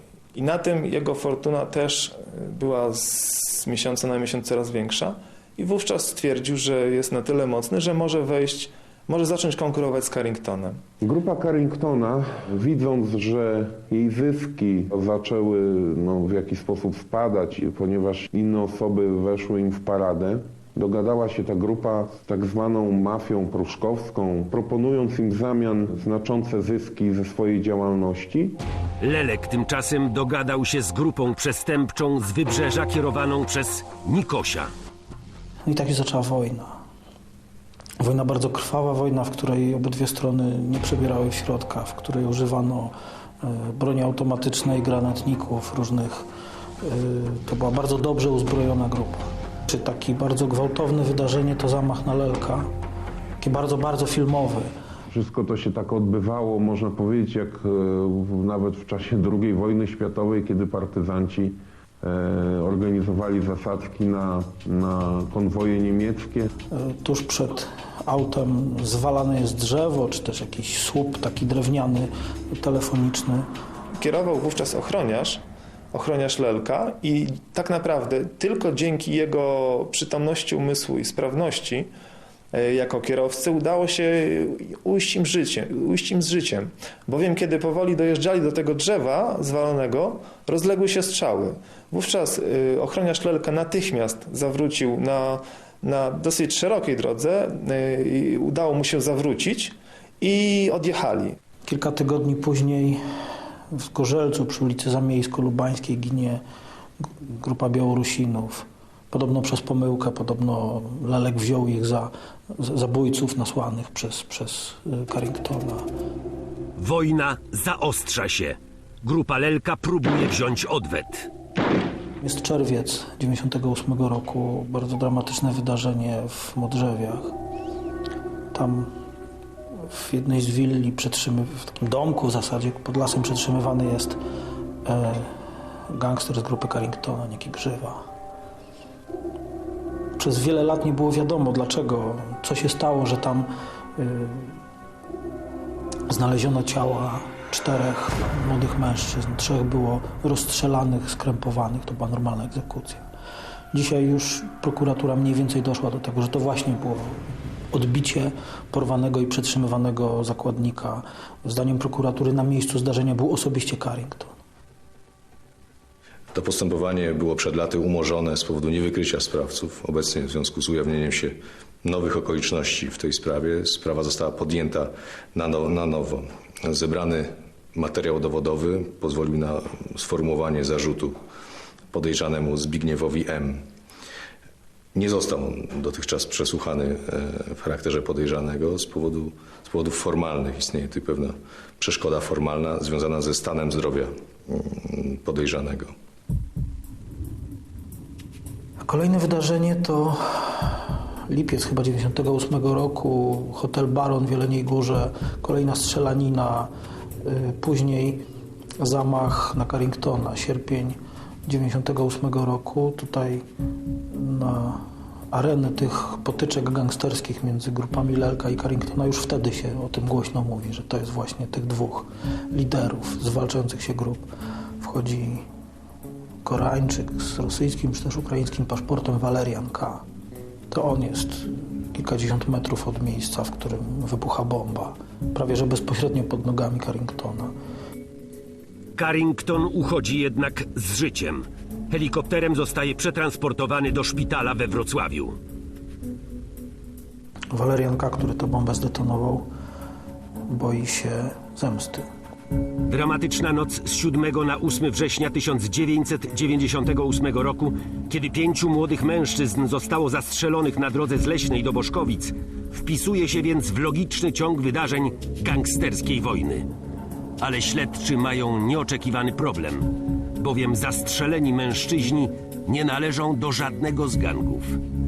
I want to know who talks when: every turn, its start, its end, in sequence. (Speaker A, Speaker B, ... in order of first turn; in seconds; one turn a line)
Speaker A: 0.3-10.7
Speaker B: 11.0-28.6
Speaker C: 29.0-34.7
Speaker D: 35.6-36.7
Speaker D: 38.0-46.2
Speaker D: 46.8-52.7
Speaker D: 53.4-54.7
Speaker B: 55.1-66.5
Speaker D: 66.7-73.5
Speaker A: 74.0-75.4
Speaker A: 75.9-81.9
Speaker A: 82.5-101.3
Speaker D: 101.7-103.0
Speaker D: 103.7-106.4
Speaker D: 107.2-115.9
Speaker C: 116.8-121.3
Speaker D: 122.2-127.3
Speaker D: 128.5-128.9
Speaker D: 129.8-134.2
Speaker D: 134.8-135.3
Speaker D: 135.9-138.0
Speaker D: 140.2-144.6
Speaker D: 146.1-153.0
Speaker D: 153.7-164.3
Speaker E: 166.3-181.1
Speaker E: 181.9-183.6
Speaker E: 184.9-195.9
Speaker D: 198.8-206.7
Speaker D: 207.2-208.2
Speaker D: 208.8-213.4
Speaker D: 214.1-224.3
Speaker D: 224.8-225.4
Speaker D: 226.4-230.0
Speaker D: 230.7-237.5
Speaker C: 239.0-245.4
Speaker D: 247.5-249.5
Speaker D: 250.5-252.1
Speaker C: 252.8-266.7
Speaker C: 267.4-274.8